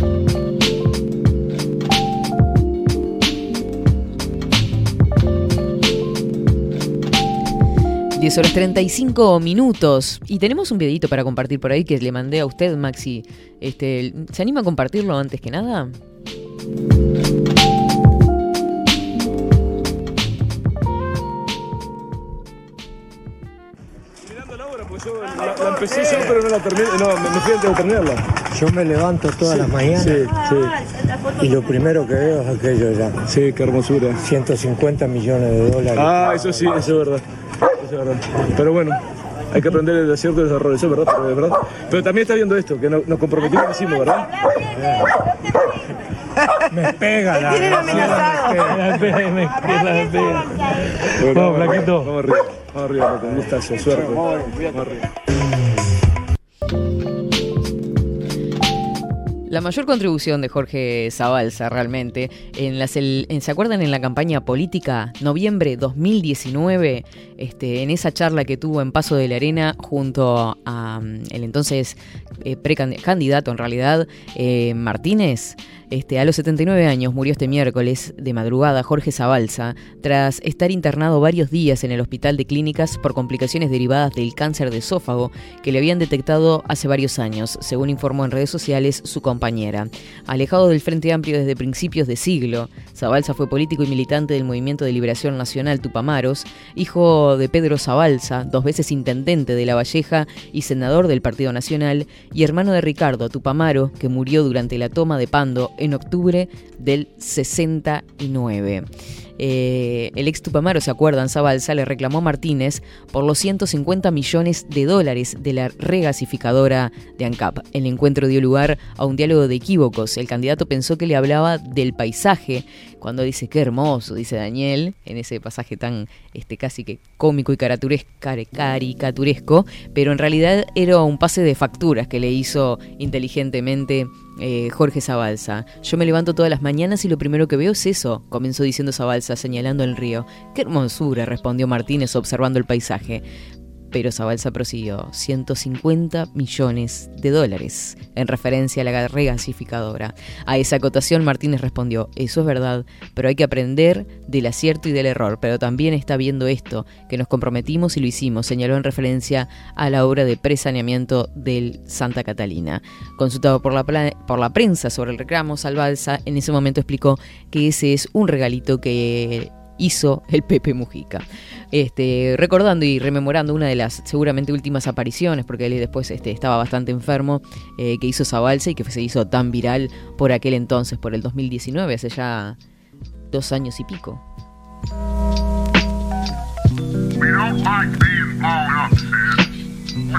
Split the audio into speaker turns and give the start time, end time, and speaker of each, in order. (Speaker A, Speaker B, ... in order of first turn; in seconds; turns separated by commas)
Speaker A: 8.1-15.9, Speaker B: 25.3-28.2, Speaker C: 28.6-30.1, Speaker B: 29.3-30.6, Speaker B: 31.4-37.2, Speaker C: 31.5-32.1, Speaker B: 38.5-39.0, Speaker B: 39.5-44.3, Speaker B: 46.8-50.3, Speaker B: 51.1-54.9, Speaker C: 51.4-52.0, Speaker A: 59.5-108.8, Speaker A: 109.4-143.2, Speaker A: 143.9-182.6, Speaker A: 183.3-184.2